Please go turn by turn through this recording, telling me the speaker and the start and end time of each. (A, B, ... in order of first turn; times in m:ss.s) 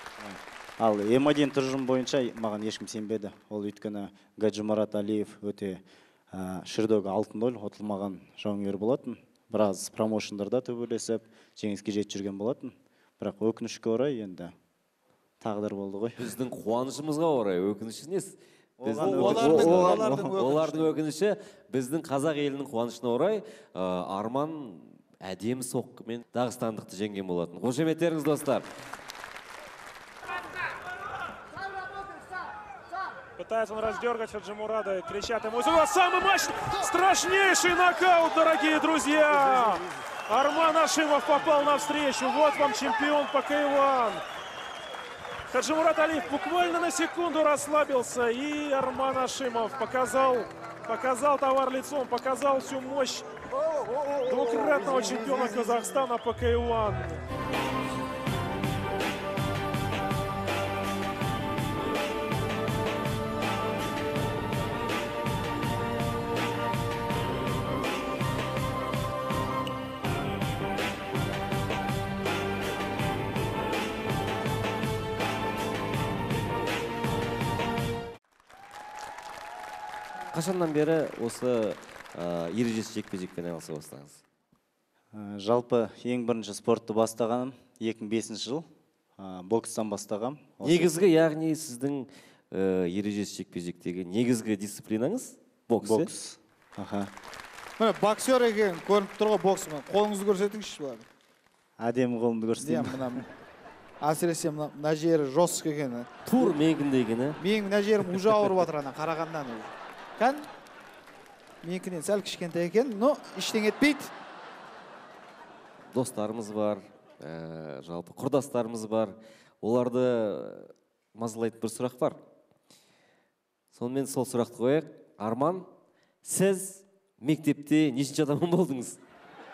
0:00.2-0:14.5 A
0:15.4-0:16.3 A
0:16.2-0:28.6 B
0:18.8-0:20.9 C
0:18.9-0:20.4 A
0:33.4-0:44.2 D
0:45.5-0:53.2 D
0:54.2-0:57.2 D
0:54.3-0:55.8 C
1:20.3-1:24.2 B
1:25.1-1:28.7 A
1:29.2-1:30.9 A
1:30.6-1:36.1 B
1:35.8-1:37.1 A
1:37.8-1:41.0 C
1:41.8-1:43.2 A
1:42.6-1:43.2 C
1:44.0-1:46.5 C
1:46.2-1:47.4 B
1:47.4-1:50.4 C
1:51.6-1:54.1 C
1:55.9-2:02.2 B
2:03.7-2:05.7 B
2:06.2-2:09.0 B